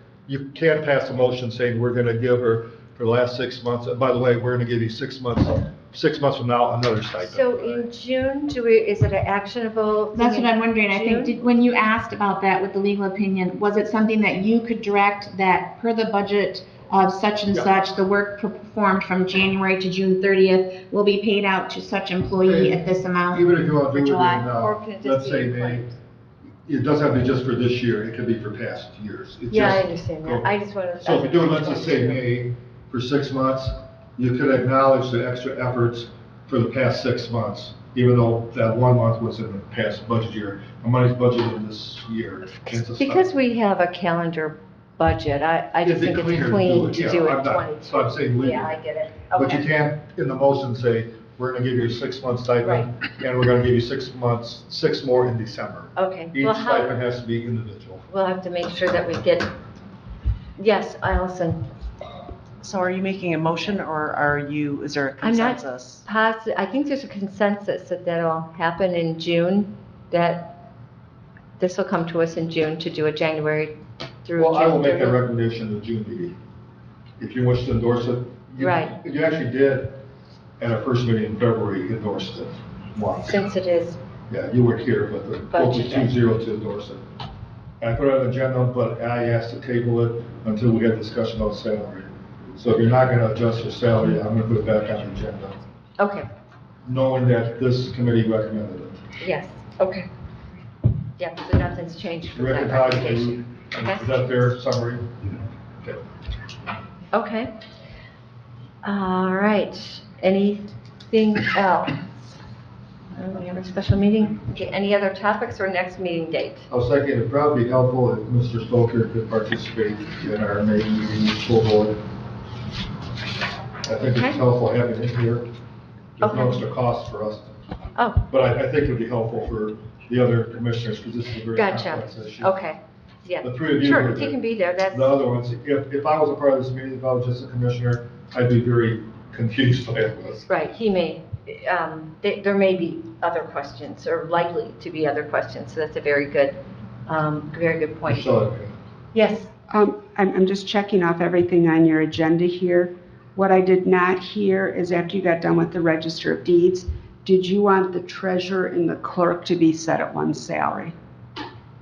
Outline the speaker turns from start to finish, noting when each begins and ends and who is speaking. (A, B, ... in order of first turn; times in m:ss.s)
0:00.3-0:07.9 A
0:07.2-0:11.4 B
0:10.1-0:24.5 C
0:22.4-0:25.9 A
0:24.6-0:26.0 B
0:26.7-0:30.5 A
0:29.5-0:32.2 B
0:31.0-0:43.3 A
0:42.6-0:49.7 B
0:45.8-0:48.8 A
0:49.3-0:58.0 A
0:56.0-0:56.9 B
0:58.1-0:59.5 B
1:00.6-1:01.6 B
1:02.6-1:06.0 D
1:05.2-1:10.6 B
1:11.6-1:15.2 B
1:14.4-1:16.4 A
1:17.2-1:20.0 A
1:18.6-1:19.0 B
1:20.6-1:23.4 A
1:23.3-1:24.0 B
1:24.3-1:27.0 A
1:25.5-1:26.1 B
1:27.8-1:35.5 A
1:36.0-1:36.3 B
1:36.8-1:39.0 A
1:39.2-1:40.1 B
1:41.2-1:44.5 B
1:42.3-1:46.0 A
1:47.1-1:47.5 B
1:48.8-1:52.1 B
1:53.1-1:56.7 B
1:56.7-2:02.0 A
2:03.8-2:05.5 A
2:06.2-2:07.5 A
2:06.2-2:06.6 B
2:08.0-2:08.2 B
2:08.3-2:12.5 A
2:11.5-2:15.2 B
2:13.4-2:20.5 A
2:20.5-2:28.4 B
2:28.1-2:28.8 A
2:29.1-2:29.5 B
2:29.7-2:41.0 E